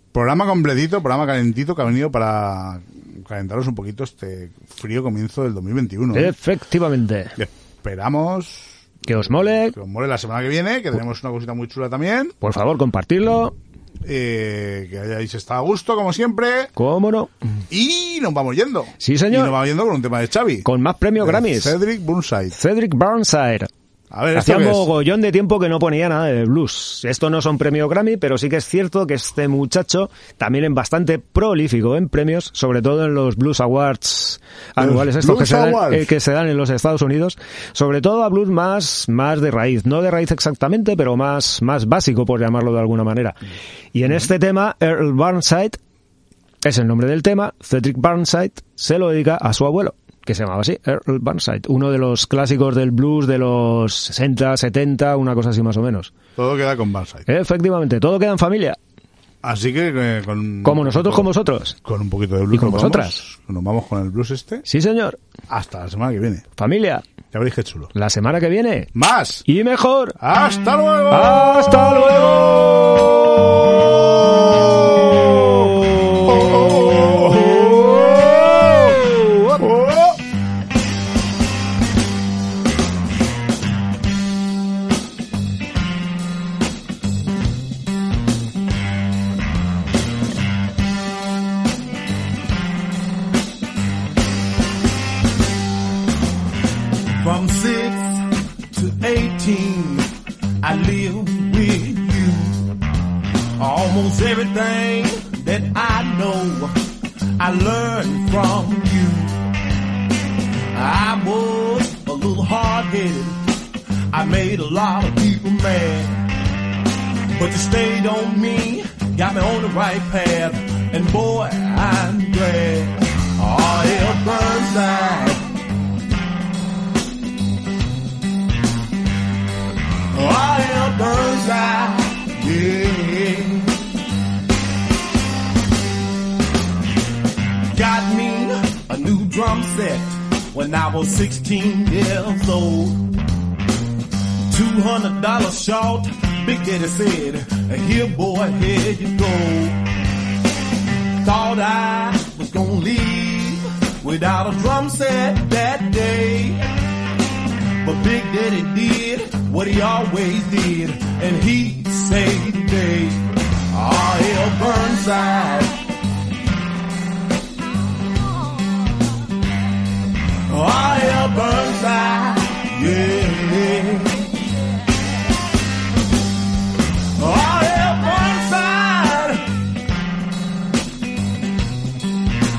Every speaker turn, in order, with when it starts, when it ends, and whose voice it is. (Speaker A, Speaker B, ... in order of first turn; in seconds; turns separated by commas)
Speaker A: 0.1-6.3, Speaker B: 6.1-7.4, Speaker A: 7.4-12.3, Speaker B: 9.1-9.8, Speaker B: 12.4-13.5, Speaker A: 14.0-16.7, Speaker B: 16.8-17.3, Speaker A: 17.7-20.7, Speaker B: 19.0-19.6, Speaker B: 20.6-21.8, Speaker A: 21.2-22.6, Speaker B: 22.5-23.7, Speaker A: 24.1-24.9, Speaker B: 24.3-43.4, Speaker A: 34.8-36.1, Speaker B: 43.9-45.8, Speaker B: 46.6-56.1, Speaker A: 56.4-57.2, Speaker B: 57.3-58.8, Speaker A: 59.4-61.3, Speaker B: 60.6-61.8, Speaker A: 61.8-64.6, Speaker B: 62.5-63.2, Speaker B: 64.7-65.2, Speaker A: 65.5-66.4, Speaker B: 66.5-67.0, Speaker A: 67.3-67.9, Speaker B: 67.9-68.9, Speaker A: 68.9-69.4, Speaker B: 69.4-70.2, Speaker A: 70.2-73.0, Speaker B: 71.1-72.9, Speaker A: 73.7-79.0, Speaker A: 79.5-80.2, Speaker C: 97.2-100.0, Speaker C: 100.6-102.6, Speaker C: 103.6-106.7, Speaker C: 107.4-109.3, Speaker C: 110.7-113.4, Speaker C: 114.1-116.2, Speaker C: 117.3-125.4, Speaker C: 130.1-133.8, Speaker C: 137.7-143.1, Speaker C: 144.5-149.8, Speaker C: 151.2-156.6, Speaker C: 157.8-165.8, Speaker C: 170.5-174.2, Speaker C: 177.2-179.4